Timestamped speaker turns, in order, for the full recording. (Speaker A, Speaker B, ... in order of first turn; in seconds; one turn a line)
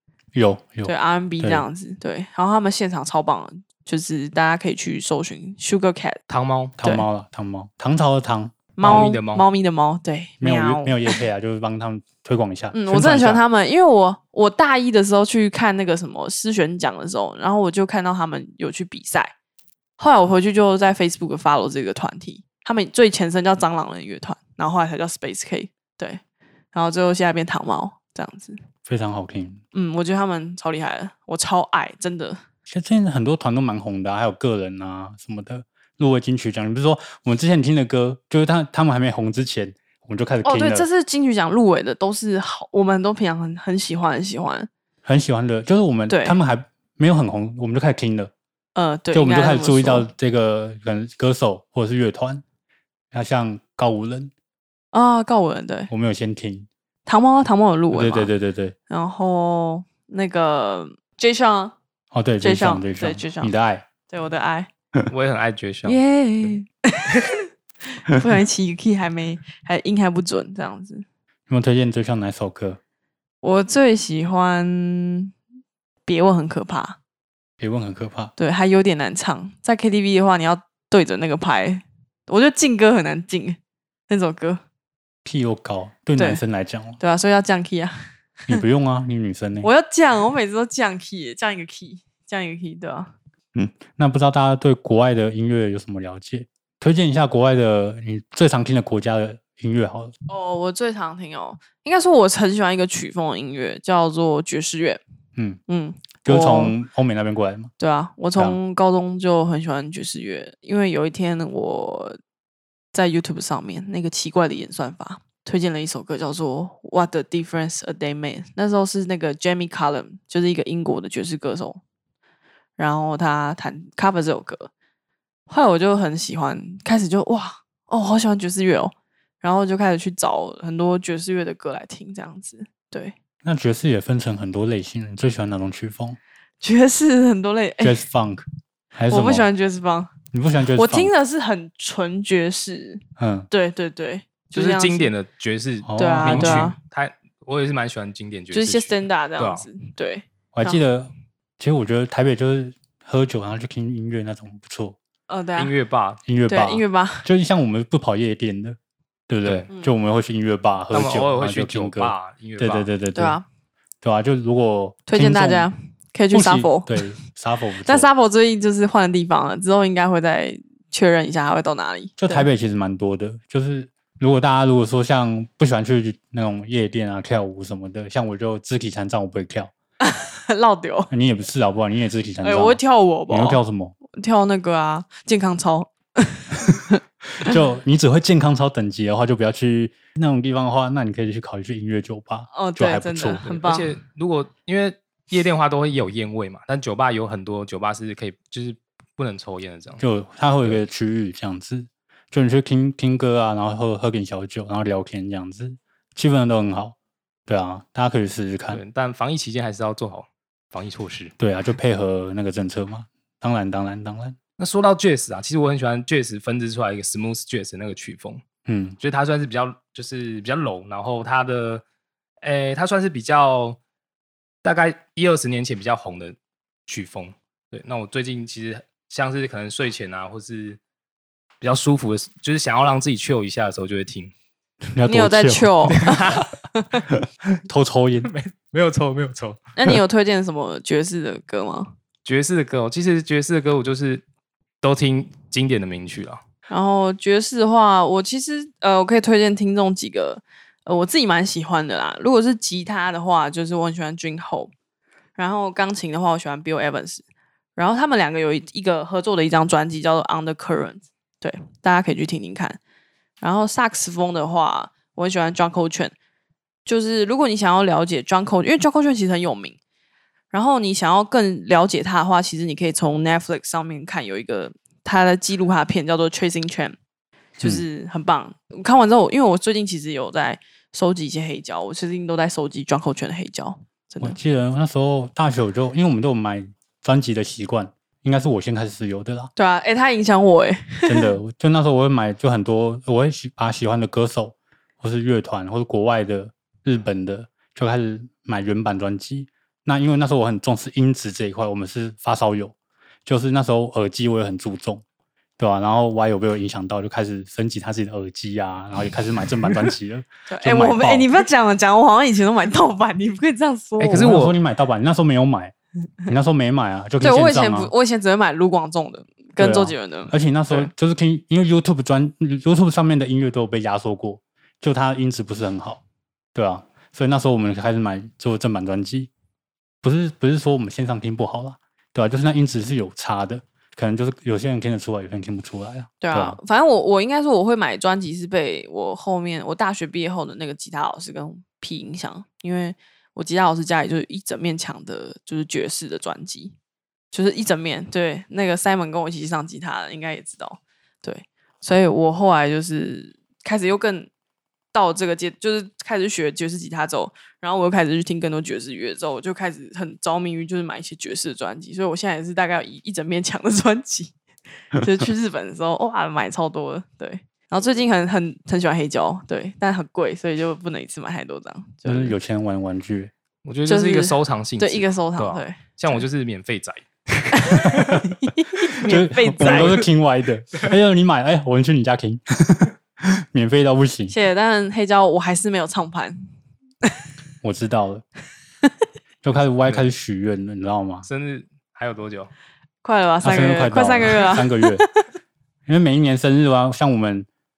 Speaker A: 0.3-1.6
Speaker B: 0.8-6.2
Speaker C: 6.3-6.8
Speaker A: 6.8-9.2
Speaker B: 8.8-11.2
Speaker C: 8.8-9.4
Speaker A: 10.4-13.4
Speaker B: 12.7-19.3
Speaker B: 20.0-26.2
Speaker B: 26.7-28.6
Speaker A: 28.9-29.6
Speaker B: 29.7-32.4
Speaker A: 32.7-40.9
Speaker B: 40.4-44.7
Speaker A: 45.0-48.3
Speaker B: 46.1-46.4
Speaker B: 48.7-50.1
Speaker A: 49.1-52.4
Speaker A: 53.1-54.3
Speaker B: 54.9-55.9
Speaker A: 55.9-56.7
Speaker B: 57.0-58.3
Speaker A: 57.9-58.8
Speaker B: 58.9-61.7
Speaker A: 62.1-63.9
Speaker B: 62.4-63.5
Speaker B: 64.1-64.7
Speaker C: 65.1-66.0
Speaker B: 65.8-67.4
Speaker B: 68.0-71.0
Speaker A: 71.5-72.8
Speaker B: 73.4-75.3
Speaker B: 76.0-77.0
Speaker A: 77.6-78.3
Speaker B: 78.4-83.6
Speaker B: 84.1-84.6
Speaker A: 85.2-87.0
Speaker B: 87.0-88.0
Speaker A: 88.5-89.7
Speaker B: 89.6-93.1
Speaker A: 93.5-100.1
Speaker B: 100.3-105.0
Speaker B: 105.7-106.8
Speaker A: 106.2-107.7
Speaker B: 107.8-112.2
Speaker B: 112.9-121.8
Speaker B: 122.8-124.7
Speaker B: 125.5-133.1
Speaker A: 133.4-136.2
Speaker B: 136.6-138.0
Speaker A: 137.8-139.5
Speaker B: 139.1-140.1
Speaker A: 140.3-141.1
Speaker B: 140.7-145.1
Speaker A: 143.2-143.5
Speaker C: 144.5-149.7
Speaker A: 145.8-146.7
Speaker B: 146.0-146.8
Speaker B: 148.5-150.8
Speaker A: 150.5-154.9
Speaker B: 155.3-155.7
Speaker C: 155.6-156.2
Speaker A: 156.2-158.8
Speaker B: 156.5-157.3
Speaker A: 159.3-163.4
Speaker C: 160.9-162.9
Speaker B: 163.1-163.4
Speaker A: 164.0-165.7
Speaker B: 165.1-167.1
Speaker A: 166.3-168.1
Speaker B: 167.8-172.5
Speaker A: 172.2-179.7
Speaker B: 180.0-181.1
Speaker A: 181.1-183.9
Speaker B: 182.4-183.6
Speaker B: 184.1-187.5
Speaker A: 187.4-193.4
Speaker B: 192.5-193.9
Speaker C: 193.4-200.0
Speaker A: 200.0-206.9
Speaker A: 207.5-208.8
Speaker C: 208.7-211.3
Speaker A: 211.4-214.4
Speaker C: 214.6-218.4
Speaker A: 218.7-219.0
Speaker C: 219.0-221.8
Speaker C: 222.4-223.8
Speaker C: 224.6-226.3
Speaker C: 226.9-230.8
Speaker C: 231.6-234.3
Speaker A: 234.9-236.1
Speaker B: 235.1-237.0
Speaker C: 236.0-236.5
Speaker A: 237.7-238.3
Speaker C: 238.2-239.6
Speaker B: 239.8-241.9
Speaker C: 242.2-244.2
Speaker C: 244.8-246.4
Speaker B: 246.7-254.7
Speaker B: 255.3-257.2
Speaker B: 257.8-262.8
Speaker B: 263.4-266.1
Speaker B: 266.8-269.8
Speaker B: 270.5-277.0
Speaker B: 277.6-284.4
Speaker A: 284.2-289.5
Speaker B: 289.6-291.3
Speaker A: 291.1-302.7
Speaker A: 303.2-305.0
Speaker A: 305.6-311.3
Speaker B: 310.5-314.4
Speaker C: 314.0-314.5
Speaker A: 314.1-315.7
Speaker A: 316.3-317.9
Speaker B: 317.2-320.9
Speaker A: 319.6-326.0
Speaker A: 326.5-329.3
Speaker A: 330.0-336.6
Speaker B: 336.2-346.7
Speaker B: 347.3-354.3
Speaker B: 354.9-364.4
Speaker B: 364.9-372.3
Speaker A: 372.0-373.3
Speaker C: 373.6-378.2
Speaker B: 373.9-376.2
Speaker B: 377.5-380.0
Speaker A: 379.0-384.3
Speaker C: 379.6-380.0
Speaker B: 384.3-386.5
Speaker A: 387.6-388.2
Speaker A: 389.4-391.2
Speaker C: 389.8-390.1
Speaker C: 391.2-392.5
Speaker B: 393.0-395.1
Speaker A: 393.4-395.0
Speaker A: 395.9-397.5